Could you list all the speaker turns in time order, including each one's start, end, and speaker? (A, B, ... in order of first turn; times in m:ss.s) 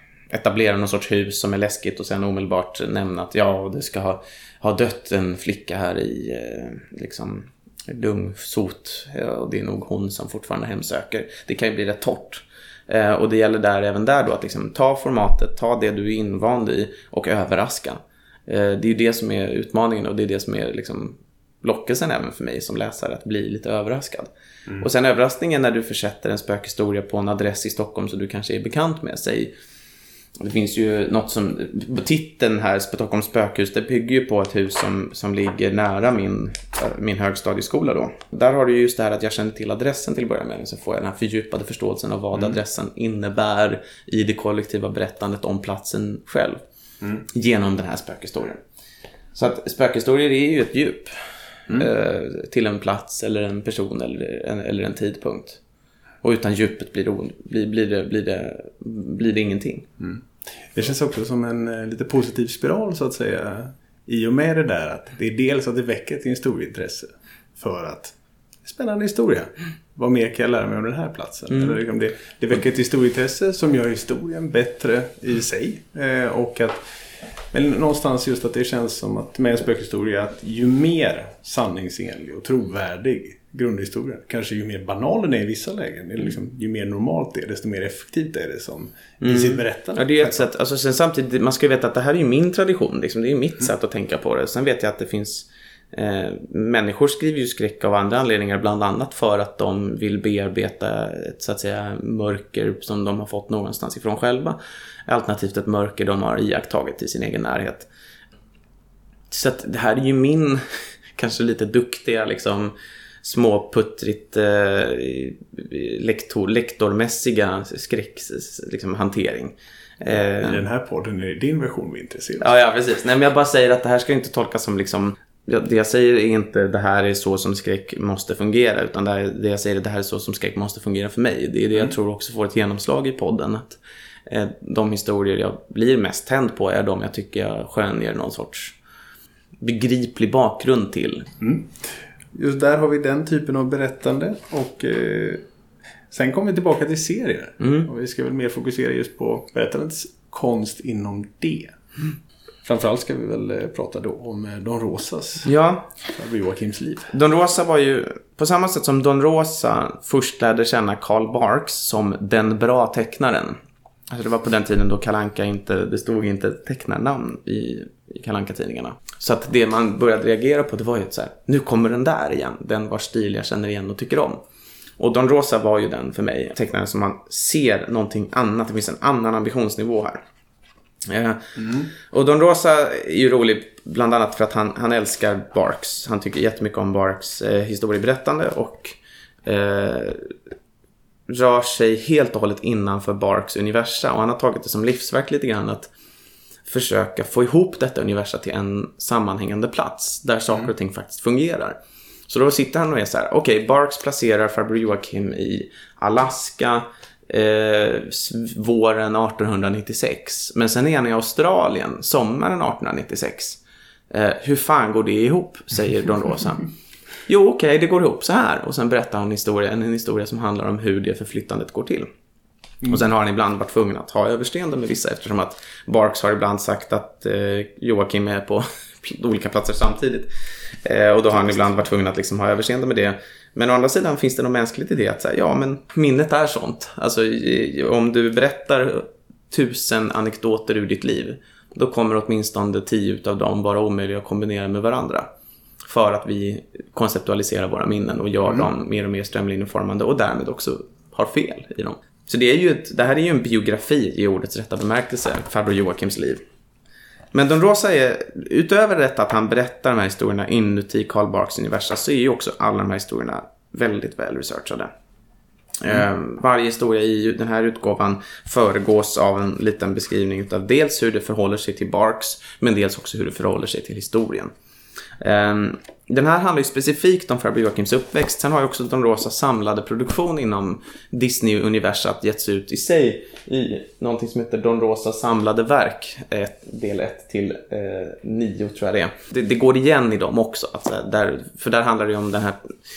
0:00.3-0:29.5 A
0:30.4-0:46.6 A
0:47.3-0:48.6 A
0:49.4-0:51.2 A
0:51.7-0:55.6 A
0:56.2-0:59.9 A
1:00.0-1:08.1 B
1:08.6-1:16.8 B
1:11.5-1:11.8 A
1:17.5-1:30.5 B
1:29.2-1:47.9 A
1:49.3-1:50.6 A
1:51.2-2:00.6 A
2:00.4-2:02.5 B
2:02.4-2:18.8 A
2:19.6-2:21.3 A
2:21.4-2:25.4 B
2:26.1-2:31.8 B
2:27.6-2:27.9 A
2:32.6-2:35.5 B
2:35.4-2:35.9 A
2:36.1-2:37.1 B
2:37.1-2:43.6 A
2:44.1-2:54.4 A
2:55.0-3:00.2 A
3:01.0-3:10.3 A
3:01.6-3:01.9 B
3:11.3-3:15.9 A
3:16.6-3:21.8 A
3:22.3-3:36.7 A
3:37.3-3:42.1 A
3:42.8-3:50.3 A
3:50.8-4:05.3 A
4:05.9-4:16.4 A
4:17.3-4:24.9 A
4:25.8-4:34.5 A
4:35.2-4:52.6 A